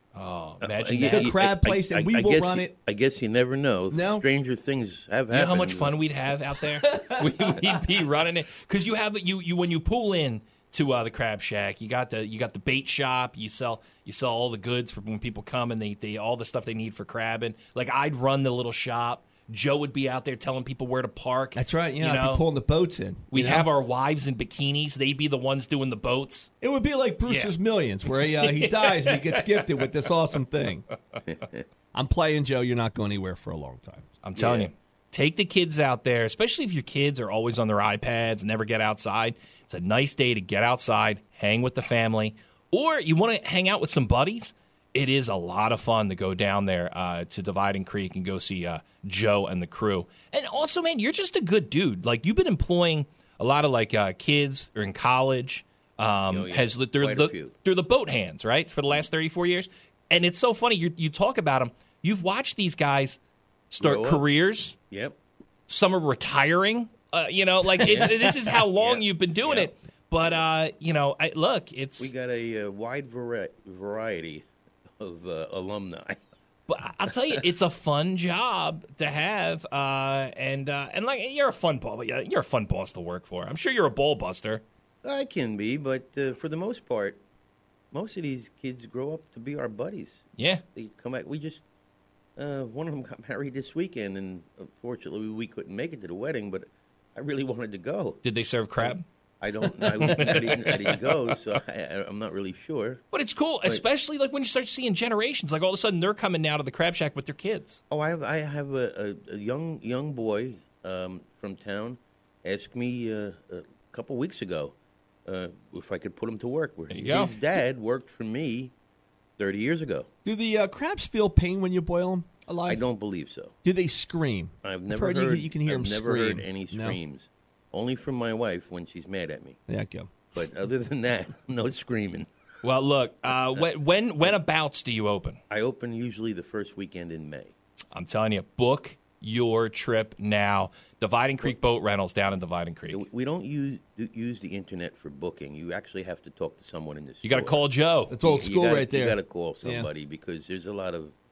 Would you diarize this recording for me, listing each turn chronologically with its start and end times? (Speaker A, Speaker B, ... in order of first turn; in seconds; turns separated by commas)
Speaker A: 0.1-1.5, Speaker B: 0.6-6.0, Speaker C: 1.0-2.8, Speaker C: 3.9-4.2, Speaker A: 5.3-22.4, Speaker C: 6.8-7.8, Speaker C: 21.6-23.7, Speaker A: 23.3-26.5, Speaker C: 26.6-30.9, Speaker A: 27.3-27.6, Speaker A: 28.3-29.8, Speaker B: 31.3-31.6, Speaker C: 31.9-34.1, Speaker A: 34.2-63.2, Speaker B: 34.4-34.7, Speaker B: 56.3-57.5, Speaker A: 63.7-64.8, Speaker B: 63.8-64.3, Speaker B: 64.9-65.2, Speaker A: 65.7-72.1, Speaker B: 67.8-69.7, Speaker B: 72.0-74.5, Speaker B: 75.0-76.2, Speaker A: 76.7-84.6, Speaker B: 85.0-87.2, Speaker B: 87.9-91.6, Speaker A: 90.4-90.6, Speaker B: 92.4-98.2, Speaker A: 98.2-99.0, Speaker B: 98.8-103.0, Speaker A: 99.8-101.2, Speaker A: 103.1-107.8, Speaker B: 107.9-114.8, Speaker B: 115.3-118.7, Speaker A: 116.9-117.4, Speaker B: 119.4-120.1, Speaker C: 120.2-122.8, Speaker B: 122.7-123.5, Speaker C: 123.6-127.0, Speaker B: 124.6-129.6, Speaker C: 129.7-130.3, Speaker B: 130.3-132.3, Speaker A: 132.6-135.4, Speaker B: 135.5-137.5, Speaker A: 137.9-143.0, Speaker B: 142.9-147.6, Speaker A: 147.2-148.2, Speaker C: 148.1-149.9, Speaker B: 148.2-151.2